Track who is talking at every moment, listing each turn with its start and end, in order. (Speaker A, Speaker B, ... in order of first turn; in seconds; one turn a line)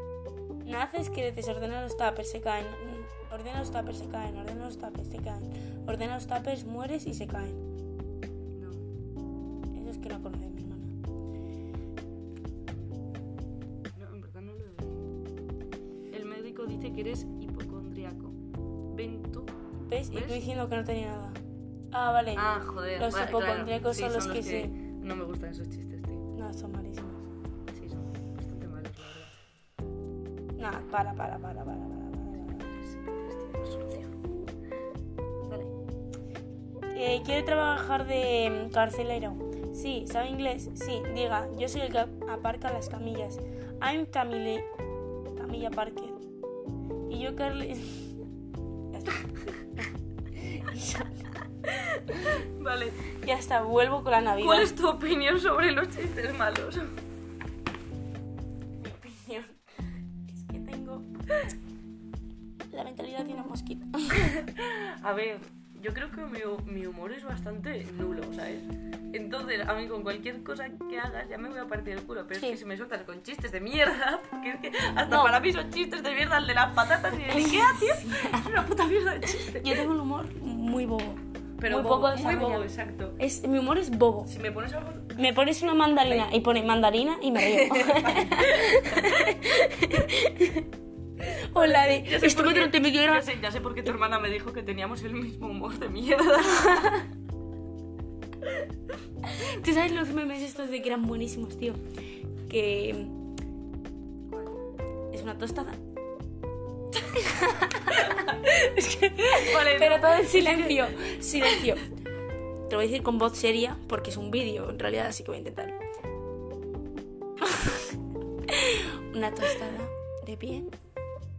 Speaker A: 0.6-7.6
Speaker B: 8.5-8.9
Speaker A: 9.7-10.9
Speaker B: 13.9-15.1
Speaker B: 16.1-19.5
Speaker A: 19.9-24.7
Speaker B: 20.1-20.4
Speaker B: 22.3-26.3
Speaker A: 26.3-27.2
Speaker B: 27.7-29.5
Speaker A: 30.6-32.7
Speaker B: 32.6-34.1
Speaker B: 35.5-35.7
Speaker A: 36.9-44.7
Speaker A: 45.3-46.2
Speaker A: 47.1-48.1
Speaker A: 48.9-49.2
Speaker A: 50.4-51.2
Speaker B: 51.6-53.0
Speaker A: 53.2-54.7
Speaker B: 54.4-56.9
Speaker A: 58.8-59.5
Speaker A: 60.3-61.0
Speaker A: 62.7-64.3
Speaker B: 64.1-79.9
Speaker A: 75.1-75.4
Speaker A: 77.3-78.6
Speaker A: 79.3-84.3
Speaker B: 81.6-83.2
Speaker B: 84.2-85.3
Speaker A: 85.1-90.7
Speaker B: 86.0-86.3
Speaker B: 87.4-89.3
Speaker A: 91.2-93.3
Speaker B: 91.5-97.0
Speaker A: 96.5-97.0
Speaker A: 99.3-101.8
Speaker A: 102.5-103.1
Speaker B: 104.3-104.7
Speaker A: 105.1-105.8
Speaker A: 107.1-111.9
Speaker B: 109.3-111.8
Speaker A: 112.7-115.8
Speaker A: 117.4-117.8
Speaker A: 118.5-120.7